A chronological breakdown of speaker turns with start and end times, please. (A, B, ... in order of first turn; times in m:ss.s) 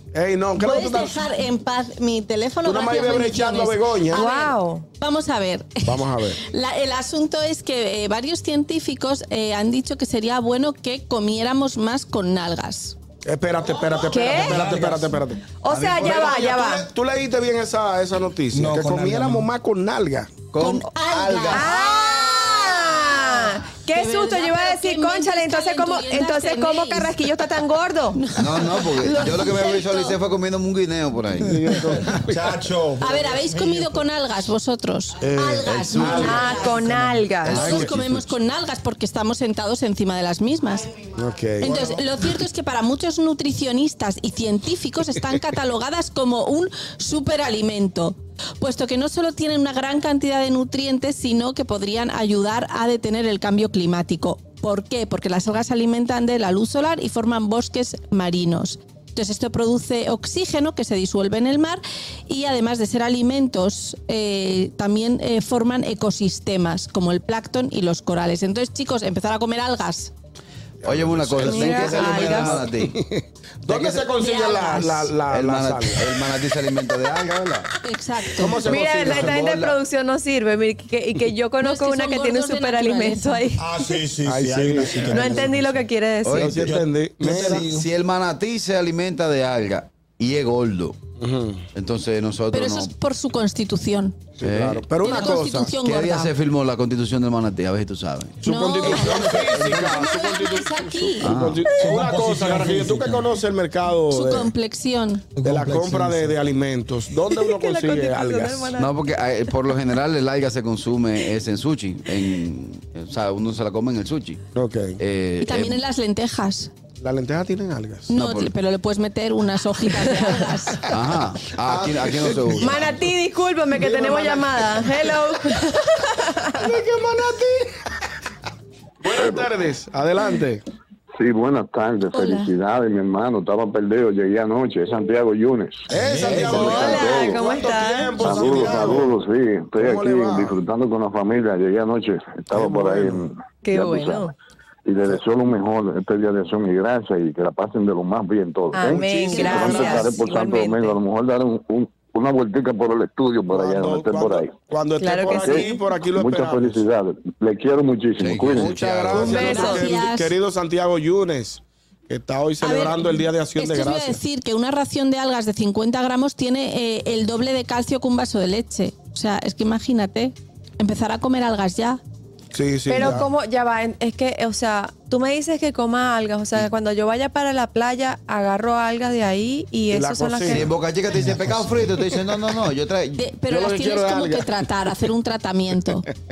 0:00.1-0:01.3 A
0:00.6-0:13.0 B
0:02.6-0:04.5 A
0:04.1-0:04.9 C
0:05.8-0:06.4 A
0:13.2-0:20.4 A
0:14.1-0:14.6 C
0:14.4-0:15.2 D
0:15.6-0:16.9 C
0:15.7-0:16.5 E
0:18.5-0:19.5 D
0:20.5-0:21.8 E
0:20.6-0:27.2 B
0:21.5-0:28.3 C
0:28.2-0:30.2 B
0:28.4-0:32.0 E
0:31.4-0:32.5 A
0:32.0-0:34.0 D
0:33.0-0:36.8 B
0:35.2-0:36.5 A
0:35.6-0:36.7 E
0:36.2-0:37.8 C
0:36.8-0:37.3 D
0:37.4-0:40.9 B
0:37.4-0:38.4 E
0:41.1-0:42.0 A
0:41.6-1:10.1 B
1:10.8-1:13.0 E
1:10.8-1:16.1 A
1:11.5-1:12.5 B
1:11.5-1:12.6 C
1:13.7-1:14.1 E
1:14.2-1:14.9 B
1:14.8-1:17.7 E
1:17.8-1:18.6 B
1:18.3-1:19.6 A
1:18.6-1:19.8 E
1:18.6-1:23.7 C
1:21.6-1:23.4 B
1:23.6-1:25.9 D
1:24.2-1:25.5 A
1:25.0-1:26.5 C
1:26.2-1:26.8 E
1:26.2-1:27.6 A
1:26.6-1:27.9 D
1:27.3-1:31.0 E
1:31.2-1:31.7 A
1:31.7-1:32.9 E
1:32.5-1:34.2 B
1:34.4-1:35.8 A
1:34.4-1:34.8 E
1:35.0-1:36.3 B
1:35.8-1:38.4 E
1:38.4-1:44.5 A
1:38.4-1:41.4 B
1:39.0-1:39.3 E
1:41.2-1:41.7 E
1:41.8-1:43.3 D
1:44.1-1:45.3 B
1:45.4-1:46.4 D
1:45.4-1:48.8 A
1:47.3-1:48.9 C
1:48.8-1:54.4 E
1:54.6-1:55.0 A
1:55.0-1:55.8 E
1:55.4-1:56.7 B
1:57.0-1:58.1 A
1:58.1-2:00.8 B
1:58.1-1:58.5 E
2:00.9-2:03.0 E
2:01.6-2:02.9 A
2:02.6-2:06.7 C
2:03.7-2:05.3 A
2:06.5-2:07.8 A
2:09.0-2:10.6 A
2:09.1-2:09.5 F
2:11.2-2:17.4 F
2:12.1-2:12.5 B
2:15.9-2:19.1 A
2:16.1-2:16.4 D
2:16.5-2:18.2 C
2:18.2-2:24.3 F
2:19.8-2:20.6 A
2:22.5-2:23.3 A
2:23.6-2:24.3 C
2:24.9-2:34.5 F
2:28.7-2:31.0 C
2:28.9-2:30.1 A
2:29.2-2:30.1 B
2:33.5-2:36.8 A
2:35.0-2:35.8 C
2:35.4-2:38.8 F
2:38.2-2:39.7 E
2:38.5-2:44.2 A
2:39.2-2:40.3 B
2:39.2-2:39.8 C
2:42.6-2:52.0 B
2:52.5-2:53.3 A
2:52.9-3:00.7 C
2:59.9-3:00.7 A
3:00.5-3:04.0 E
3:01.1-3:01.9 D
3:03.2-3:06.1 B
3:03.5-3:04.5 A